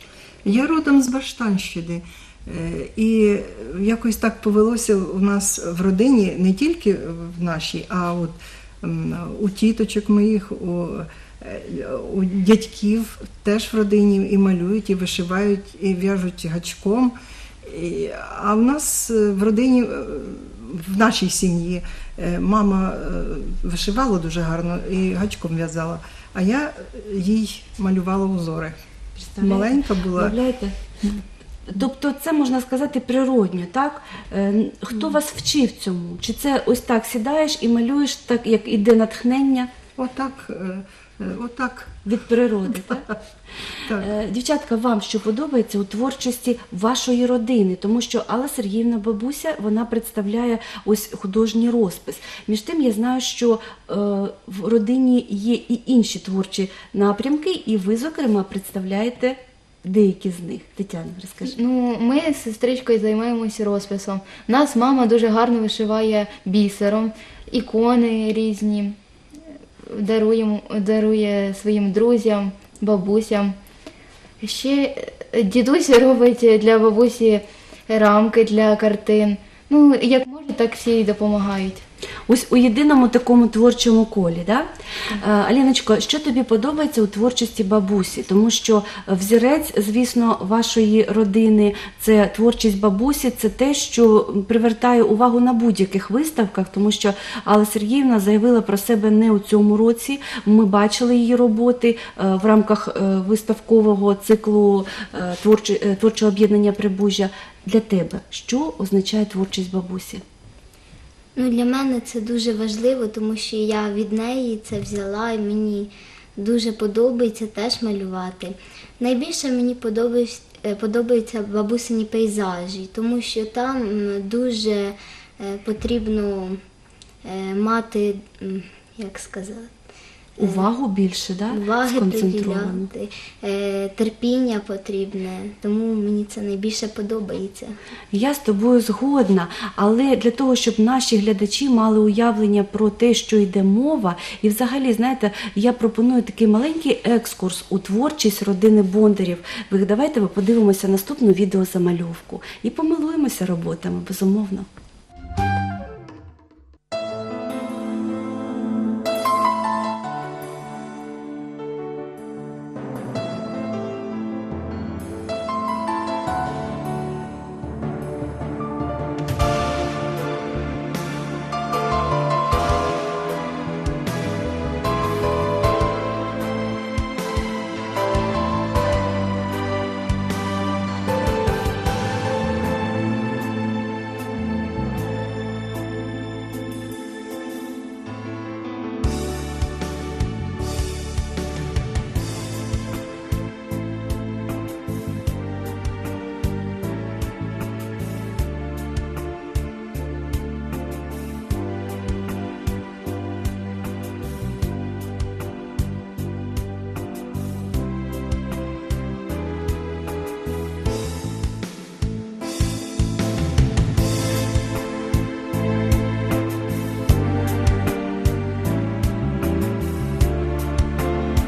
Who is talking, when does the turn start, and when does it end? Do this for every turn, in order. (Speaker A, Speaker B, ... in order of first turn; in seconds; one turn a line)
Speaker A: 0.5-28.8
Speaker B: 29.2-30.8
Speaker A: 29.4-30.4
Speaker B: 31.7-39.7
Speaker A: 40.0-42.0
Speaker B: 42.1-43.1
Speaker A: 42.7-43.2
Speaker A: 43.8-44.1
Speaker B: 43.9-61.6
Speaker C: 61.5-69.0
Speaker C: 69.8-73.5
Speaker C: 74.4-81.8
Speaker B: 82.3-110.2
Speaker D: 111.4-126.6
Speaker D: 127.2-129.7
Speaker D: 130.4-130.7
Speaker B: 130.4-132.9
Speaker D: 131.5-137.8
Speaker B: 138.1-154.7